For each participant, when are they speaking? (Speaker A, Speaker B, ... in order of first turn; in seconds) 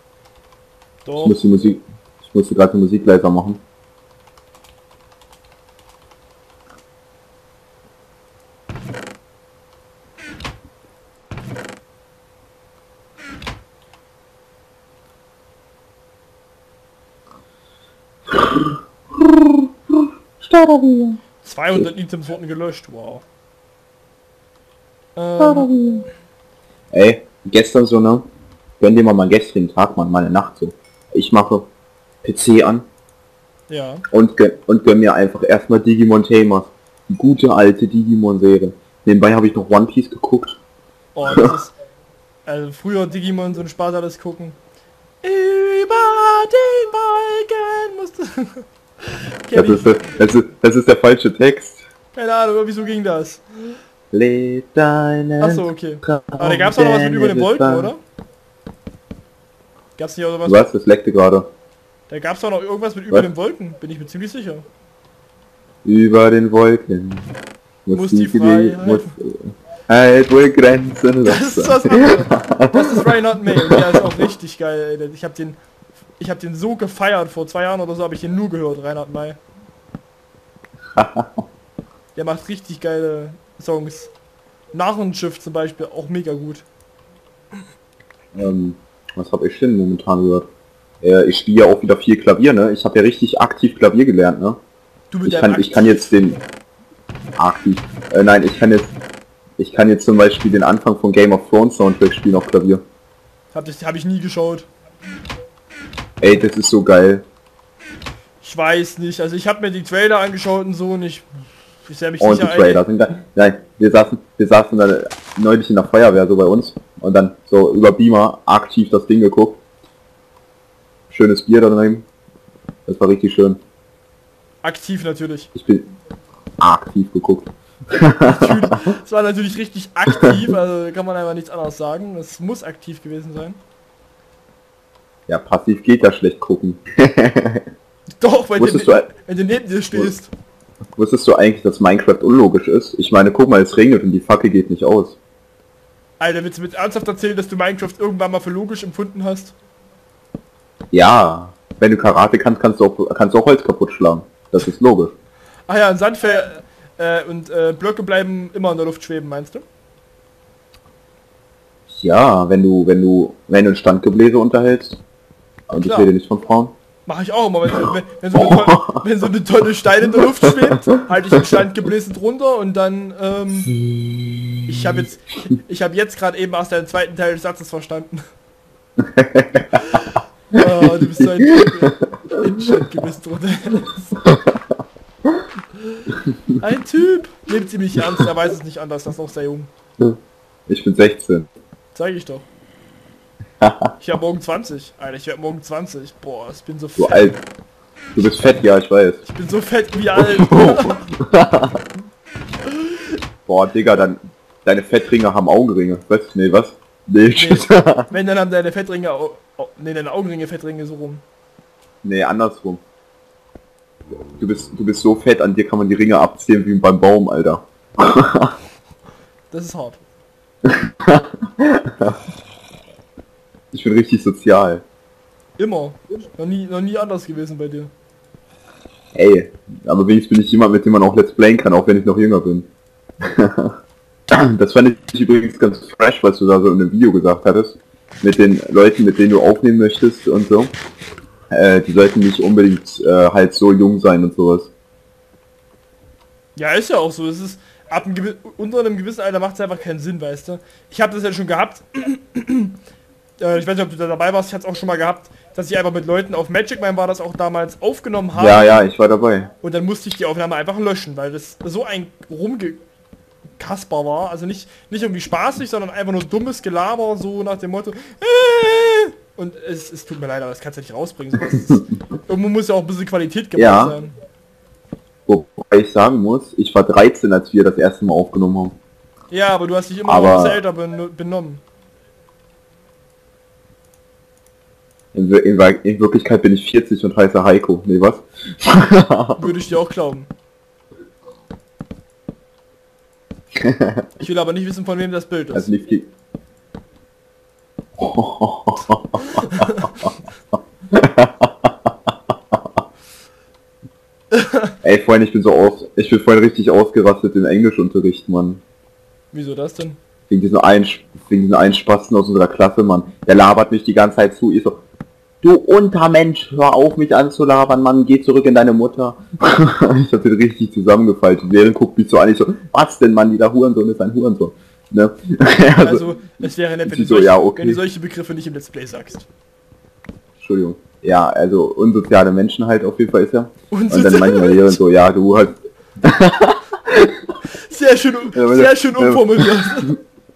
Speaker A: 1.0-1.4, 21.4-23.2, 25.1-25.7, 33.7-34.0, 41.1-41.7, 42.5-44.6, 45.2-50.0, 52.1-53.7, 55.4-58.0, 60.0-60.7, 62.1-64.7, 67.9-69.1, 71.2-75.6, 76.2-79.4, 82.1-84.1, 84.7-86.6, 95.1-96.1, 103.5-104.7, 108.4-111.3, 111.8-112.8, 124.6-125.5, 128.2-133.6, 138.2-140.3, 146.2-149.5, 155.7-159.7, 165.8-166.1, 167.1-173.7, 174.7-178.2, 179.7-184.2, 186.6-189.7, 191.9-192.4, 194.0-197.3, 199.2-201.0, 202.7-203.2, 207.3-211.2, 219.5-220.0, 225.6-227.9, 246.6-252.7, 253.4-258.9, 259.6-262.8, 263.6-274.1, 279.3-281.6, 289.4-290.3, 294.2-295.7, 299.2-299.9, 304.3-304.7, 309.3-310.0, 325.7-329.2, 333.7-334.8, 337.6-339.9
Speaker B: 1.2-3.6, 18.3-21.2, 25.4-26.1, 26.9-28.3, 28.8-31.7, 32.2-32.9, 34.1-40.6, 41.3-41.5, 49.5-51.9, 54.1-57.9, 60.4-61.5, 65.8-67.3, 67.8-74.0, 81.0-81.4, 88.3-90.5, 91.0-94.6, 95.2-96.4, 97.4-98.9, 99.6-102.8, 106.2-107.2, 112.2-119.6, 121.1-122.0, 122.8-123.6, 125.5-125.9, 126.6-128.9, 130.1-130.3, 135.3-137.7, 138.6-139.1, 140.9-145.2, 150.9-155.1, 161.9-165.0, 165.7-166.7, 168.3-169.0, 173.8-174.9, 179.0-179.8, 180.6-182.8, 184.2-184.6, 190.7-191.5, 193.6-193.9, 197.0-197.4, 198.2-199.2, 200.1-201.8, 203.5-208.1, 212.0-212.8, 214.4-218.5, 220.6-222.2, 223.7-224.8, 229.1-232.7, 233.2-233.8, 234.3-240.7, 241.5-244.7, 258.4-259.5, 273.6-273.9, 275.3-278.8, 280.0-280.6, 285.1-289.5, 293.6-294.1, 295.5-296.1, 298.0-300.1, 300.9-301.9, 304.8-308.6, 310.3-314.8, 315.4-327.8, 330.4-337.3, 338.3-339.9